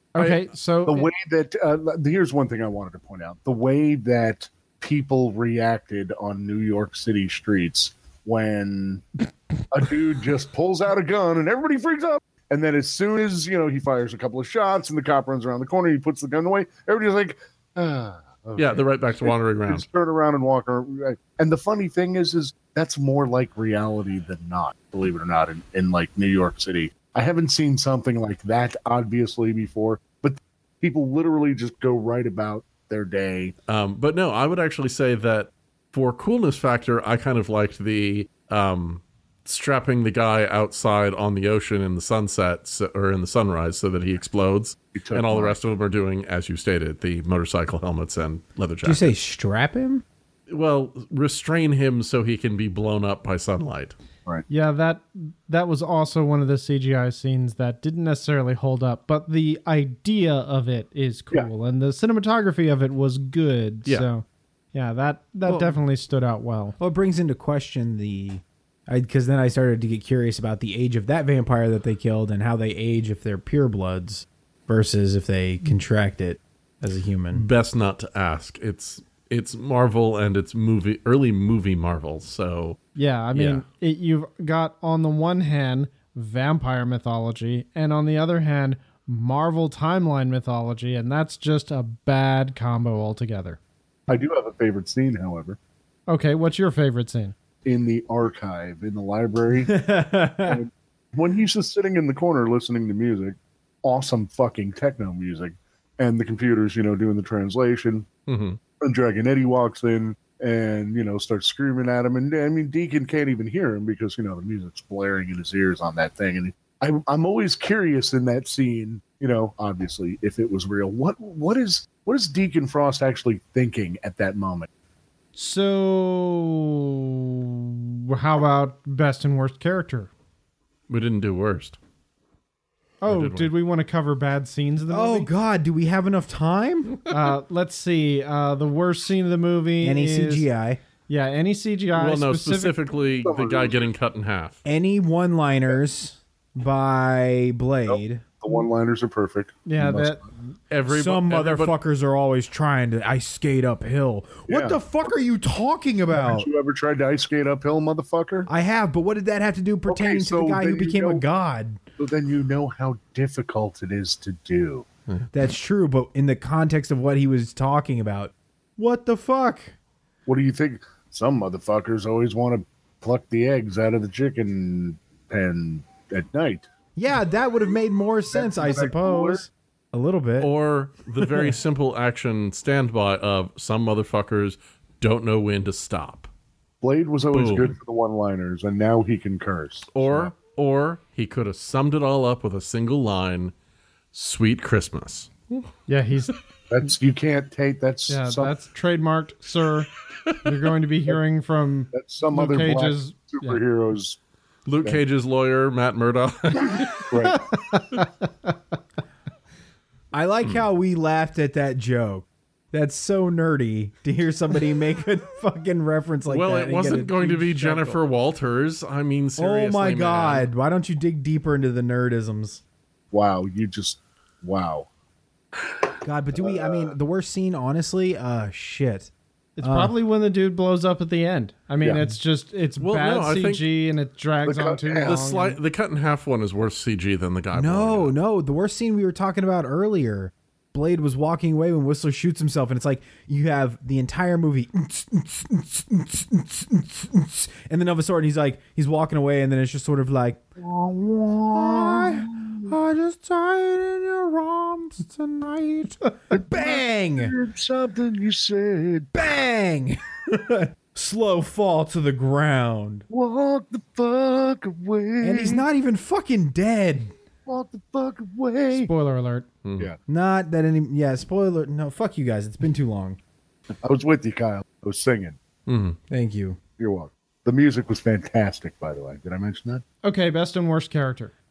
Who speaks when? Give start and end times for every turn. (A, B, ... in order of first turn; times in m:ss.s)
0:00.1-0:01.1 A
0:00.2-0:00.4 B
0:00.9-0:33.5 C
0:18.6-0:19.9 B
0:33.7-0:49.1 B
0:45.0-0:45.6 C
0:48.8-0:50.0 D
0:50.5-0:54.0 B
0:54.5-1:06.8 A
1:05.5-1:05.8 D
1:06.8-1:17.5 D
1:17.3-1:22.8 B
1:23.0-1:33.6 A
1:23.3-1:23.6 B
1:34.1-1:35.6 C
1:36.1-1:37.3 A
1:37.6-1:39.9 C
1:39.7-1:40.6 D
1:40.4-1:48.1 C
1:48.3-1:48.6 B
1:48.8-2:04.7 C
2:05.4-2:10.1 A
2:10.9-2:11.8 B
2:13.0-2:15.3 A
2:13.1-2:13.5 B
2:14.9-2:17.0 D
2:17.1-2:20.5 A
2:19.8-2:20.8 D
2:21.1-2:22.8 A
2:22.0-2:24.6 B
2:23.2-2:23.8 C
2:24.6-2:28.2 D
2:27.9-2:30.3 C
2:29.7-2:30.2 A
2:30.7-2:31.8 B
2:30.9-2:36.5 D
2:34.5-2:34.8 C
2:36.1-2:38.5 C
2:38.5-2:41.8 D
2:39.9-2:41.2 C
2:42.0-2:44.9 C
2:45.3-2:49.8 D
2:50.3-2:56.7 C
2:57.0-3:00.5 D
2:58.3-2:59.4 C
3:00.4-3:06.3 B
3:01.2-3:01.6 D
3:06.8-3:10.3 C
3:07.3-3:07.8 B
3:09.9-3:13.5 B
3:14.1-3:15.6 B
3:15.9-3:16.4 A
3:16.7-3:18.5 C
3:18.1-3:19.9 A
3:20.4-3:23.6 A
3:21.9-3:24.2 C
3:24.7-3:27.1 B
3:27.1-3:27.4 C
3:27.2-3:28.5 A
3:30.1-3:38.0 D
3:36.3-3:40.5 B
3:39.4-3:42.6 D
3:43.1-3:44.9 C
3:46.0-3:49.9 D
3:46.4-3:46.9 C
3:49.6-3:55.6 A
3:51.8-3:52.1 C
3:52.8-3:53.7 B
3:54.4-3:55.2 C
3:55.0-3:58.1 B
3:57.5-4:10.4 D
4:10.6-4:12.7 C
4:11.5-4:17.3 D
4:16.3-4:19.1 C
4:19.1-4:23.1 D
4:23.1-4:25.6 C
4:25.2-4:27.1 D
4:27.5-4:28.9 C
4:28.7-4:29.5 A
4:29.6-4:29.9 B
4:30.1-4:33.2 D
4:33.8-4:35.4 C
4:35.7-4:36.0 B
4:36.1-4:36.6 D
4:36.8-4:39.8 C
4:40.0-4:41.3 A